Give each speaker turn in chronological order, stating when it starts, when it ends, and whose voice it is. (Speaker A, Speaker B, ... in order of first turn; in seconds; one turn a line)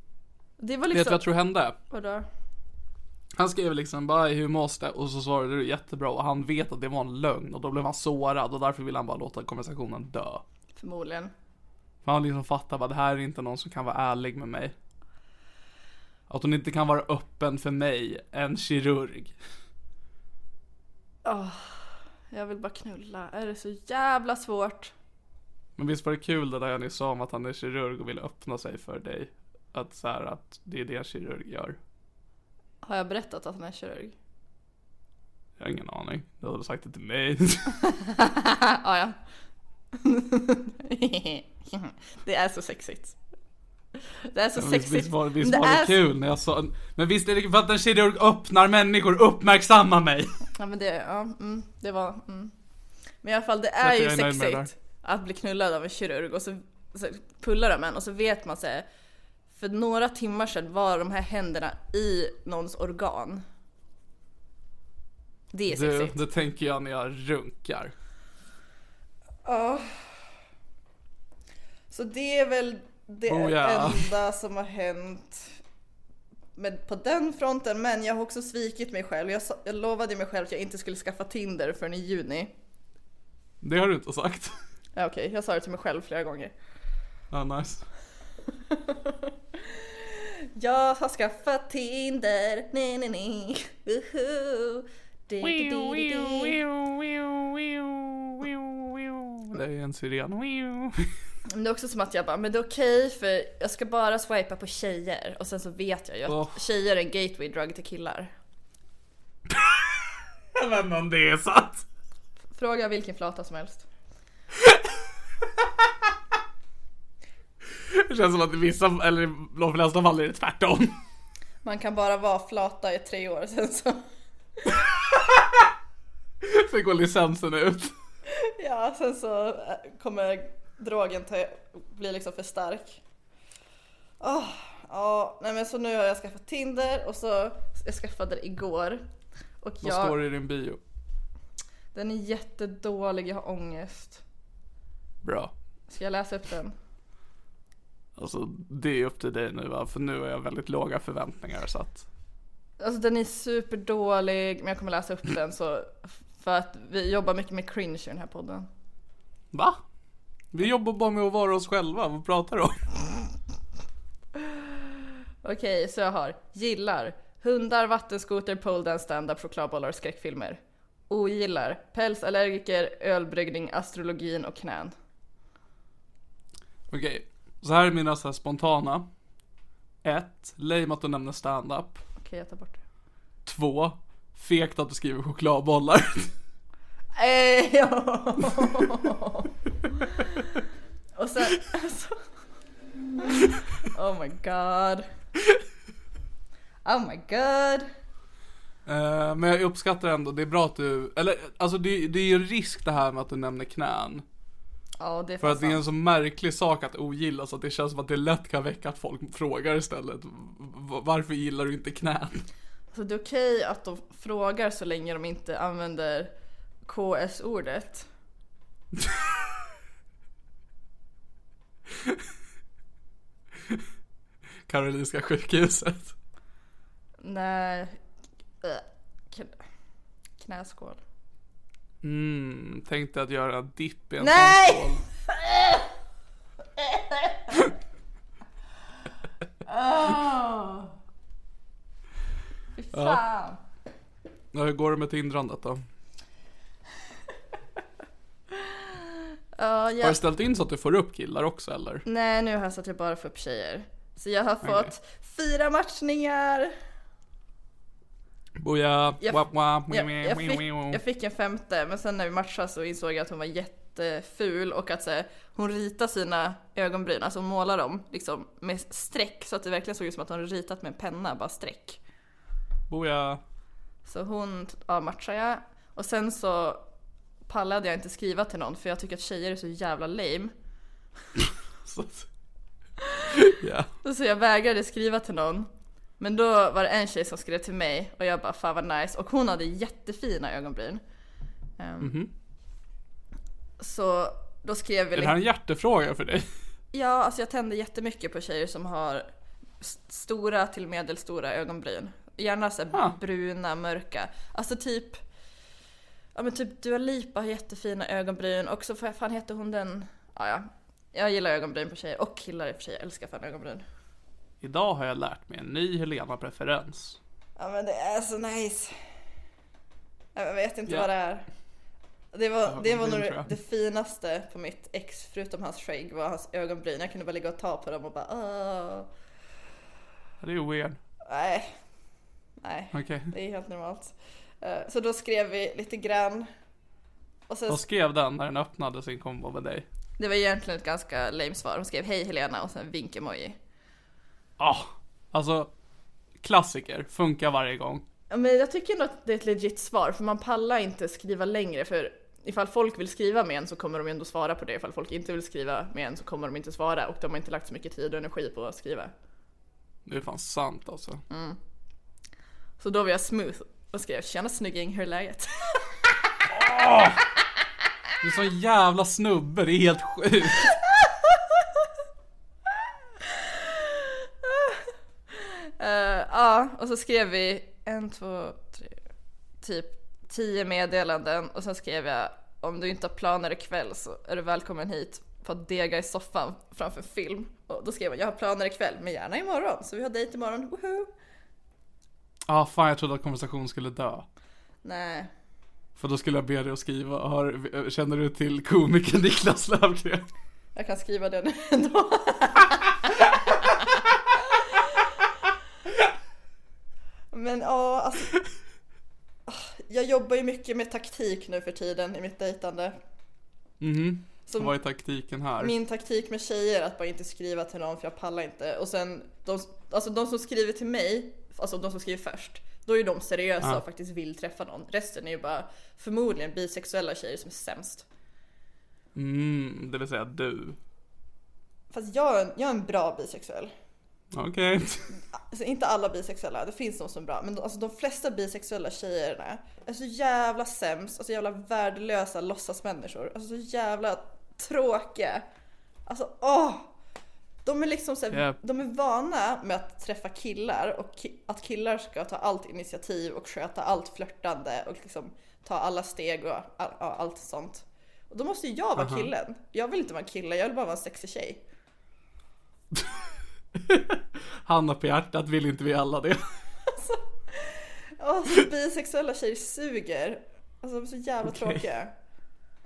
Speaker A: 0.6-1.2
Speaker B: 0.9-1.8
Speaker A: 1.9-2.2
Speaker B: 3.3-10.4
Speaker A: 10.8-11.3
Speaker B: 12.0-14.7
Speaker B: 16.3-19.4
Speaker A: 21.2-24.9
Speaker B: 25.8-31.8
Speaker A: 32.8-34.1
Speaker B: 35.6-37.8
Speaker A: 37.8-39.1
Speaker A: 39.9-43.1
Speaker A: 44.3-46.0
Speaker B: 44.5-50.3
Speaker A: 50.5-52.5
Speaker A: 53.2-58.9
Speaker B: 53.8-54.7
Speaker A: 59.5-63.4
Speaker A: 65.5-66.2
Speaker B: 65.7-67.9
Speaker A: 69.4-70.1
Speaker A: 71.9-75.5
Speaker B: 73.3-74.1
Speaker A: 76.5-82.5
Speaker B: 83.6-84.6
Speaker A: 85.0-86.5
Speaker B: 87.3-87.8
Speaker A: 88.7-96.6
Speaker B: 95.4-101.1
Speaker A: 101.5-108.3
Speaker B: 106.3-106.6
Speaker B: 109.5-111.8
Speaker A: 112.5-113.8
Speaker B: 117.8-121.0
Speaker A: 121.6-124.0
Speaker B: 126.4-127.9
Speaker A: 128.3-133.0
Speaker A: 134.2-139.0
Speaker A: 139.6-140.2
Speaker B: 139.8-140.8
Speaker A: 141.9-144.2
Speaker B: 145.2-145.5
Speaker A: 145.9-146.7
Speaker B: 148.2-152.1
Speaker A: 152.8-158.7
Speaker B: 159.5-159.8
Speaker B: 160.5-162.8
Speaker A: 164.4-164.8
Speaker A: 165.4-174.9
Speaker B: 176.9-179.1
Speaker B: 180.0-182.0
Speaker A: 182.2-182.8
Speaker B: 183.4-186.3
Speaker A: 187.2-189.5
Speaker A: 190.1-190.5
Speaker A: 191.2-192.2
Speaker A: 193.2-195.1
Speaker A: 196.8-197.9
Speaker B: 198.8-204.2
Speaker A: 205.0-205.8
Speaker B: 205.4-212.4
Speaker A: 212.9-216.3
Speaker A: 216.8-218.1
Speaker B: 224.7-226.1
Speaker A: 227.2-228.0
Speaker A: 228.6-229.6
Speaker A: 230.4-231.0
Speaker B: 232.0-235.0
Speaker A: 234.2-235.9
Speaker A: 236.8-237.6
Speaker A: 239.7-240.9
Speaker A: 242.8-243.6
Speaker B: 242.9-243.2
Speaker B: 244.5-245.8
Speaker A: 248.5-249.0
Speaker A: 249.5-250.2
Speaker B: 250.0-252.0
Speaker A: 252.1-256.7
Speaker B: 254.6-254.9
Speaker B: 258.6-261.0
Speaker A: 259.2-272.0
Speaker B: 272.9-273.4
Speaker A: 274.1-276.8
Speaker A: 277.5-280.5
Speaker B: 281.8-282.3
Speaker A: 283.0-283.3
Speaker B: 283.4-283.9
Speaker A: 284.0-285.7
Speaker A: 286.2-291.0
Speaker A: 291.8-292.1
Speaker B: 292.0-292.3
Speaker A: 293.8-295.4
Speaker B: 295.1-296.4
Speaker A: 296.9-299.3
Speaker A: 299.8-305.2
Speaker A: 306.3-313.8
Speaker B: 314.6-317.2
Speaker A: 317.6-318.9
Speaker A: 320.3-321.5
Speaker A: 322.3-329.1
Speaker B: 322.6-323.5
Speaker B: 330.4-331.0
Speaker A: 331.2-331.7
Speaker A: 332.6-336.5
Speaker B: 332.9-333.3
Speaker A: 337.5-337.8
Speaker B: 337.7-339.9
Speaker A: 340.2-343.6
Speaker B: 344.6-345.7
Speaker B: 346.4-348.0
Speaker A: 348.3-359.1
Speaker B: 360.1-361.2
Speaker A: 361.3-361.6
Speaker A: 362.8-366.1
Speaker B: 366.5-367.2
Speaker B: 368.2-370.7
Speaker A: 373.2-378.9
Speaker A: 379.6-391.1
Speaker B: 392.5-394.3
Speaker A: 394.8-395.3
Speaker B: 395.9-400.3
Speaker A: 400.7-403.9
Speaker A: 407.3-408.4
Speaker A: 409.5-412.9
Speaker B: 413.8-415.7
Speaker A: 414.5-414.7
Speaker A: 415.6-428.0
Speaker B: 429.1-430.8
Speaker A: 431.9-433.7
Speaker B: 434.3-435.1
Speaker A: 435.4-445.4
Speaker A: 446.1-446.9
Speaker A: 447.6-461.6
Speaker B: 448.3-448.6
Speaker B: 459.0-459.3
Speaker B: 463.7-466.4
Speaker A: 466.9-472.1
Speaker B: 471.4-471.8